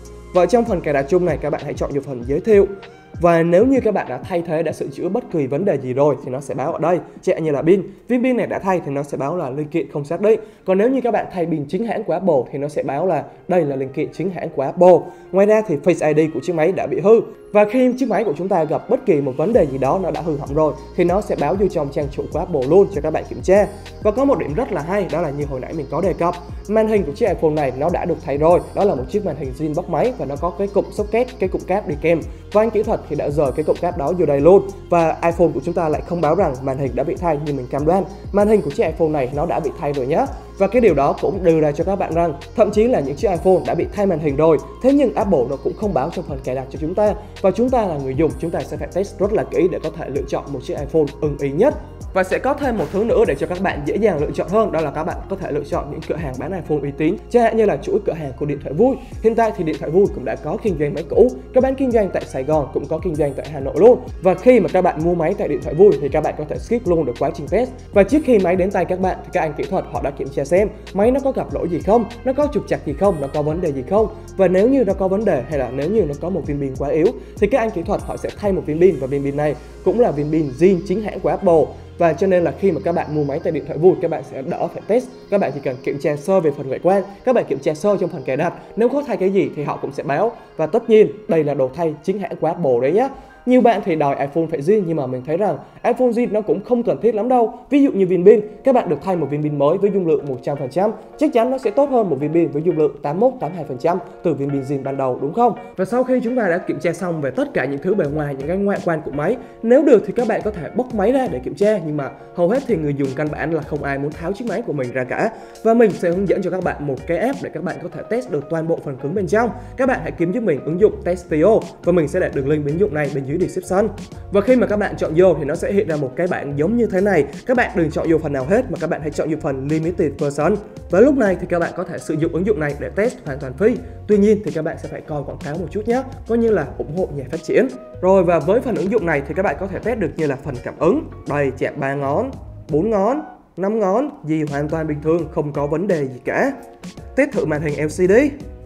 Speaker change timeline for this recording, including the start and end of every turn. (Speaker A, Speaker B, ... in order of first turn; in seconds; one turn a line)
Speaker A: 0.3-146.5
Speaker A: 147.1-148.3